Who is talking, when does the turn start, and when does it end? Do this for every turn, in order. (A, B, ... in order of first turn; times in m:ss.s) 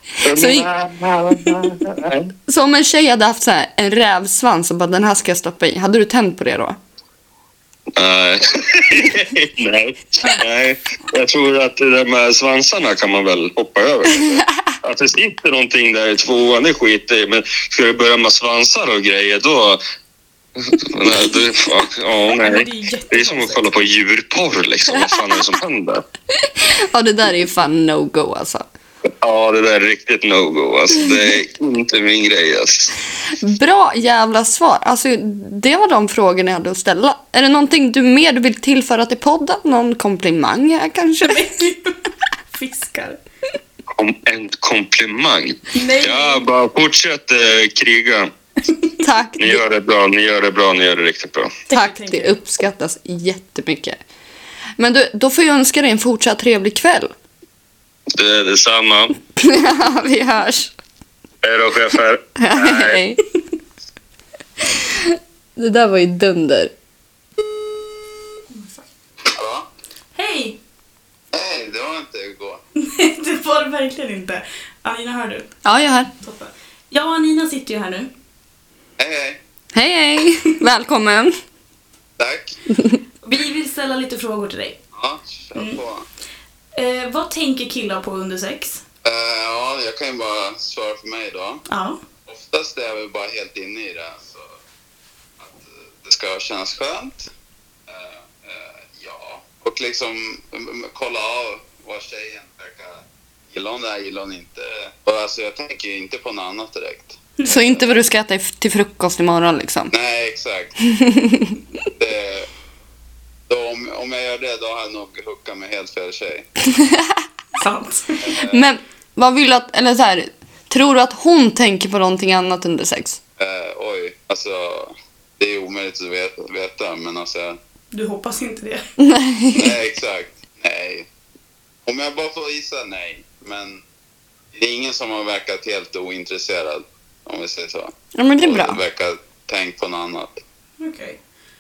0:00.2-0:00.7 A
0:00.2-0:02.3 B
0:02.5-0:06.8 A
0:08.0-0:19.8 B
0:20.6-0:26.0 B
0:22.2-0:23.7 C
0:26.7-0:28.7 A
0:29.2-0:32.9 B
0:33.4-0:41.5 A
0:41.2-0:42.0 C
0:42.5-0:43.2 C
0:43.9-0:48.3 B
0:45.7-0:46.5 C
0:49.0-0:49.6 A
0:49.4-0:51.6 B
0:51.7-0:52.4 C
0:51.7-0:54.0 A
0:54.8-0:57.1 A
0:58.1-0:59.2 B
0:59.4-1:00.7 A
1:01.4-1:03.0 B
1:02.4-1:03.2 A
1:04.8-1:06.7 A
1:08.5-1:08.9 C
1:09.3-1:09.7 D
1:10.2-1:10.6 C
1:11.3-1:12.6 D
1:12.8-1:15.5 C
1:15.6-1:16.1 A
1:16.2-1:18.1 C
1:19.0-1:19.4 D
1:19.7-1:21.3 A
1:22.2-1:22.6 D
1:23.2-1:24.8 C
1:25.0-1:26.1 D
1:26.8-1:28.8 C
1:29.0-1:31.7 D
1:31.7-1:32.0 C
1:32.3-1:34.5 D
1:35.4-1:37.3 D
1:37.9-1:48.0 D
1:47.4-1:49.9 A
1:49.9-1:50.9 D
1:51.0-1:51.5 A
1:51.9-1:52.5 D
1:53.5-1:56.5 D
1:56.8-1:57.1 A
1:57.6-1:58.3 C
1:58.2-1:58.7 D
1:58.5-2:03.2 A
2:03.4-2:07.6 D
2:07.9-2:08.9 C
2:09.0-2:09.8 A
2:09.5-2:11.1 D
2:11.9-2:13.8 D
2:14.5-2:20.4 D
2:18.2-2:18.8 A
2:20.8-2:21.2 C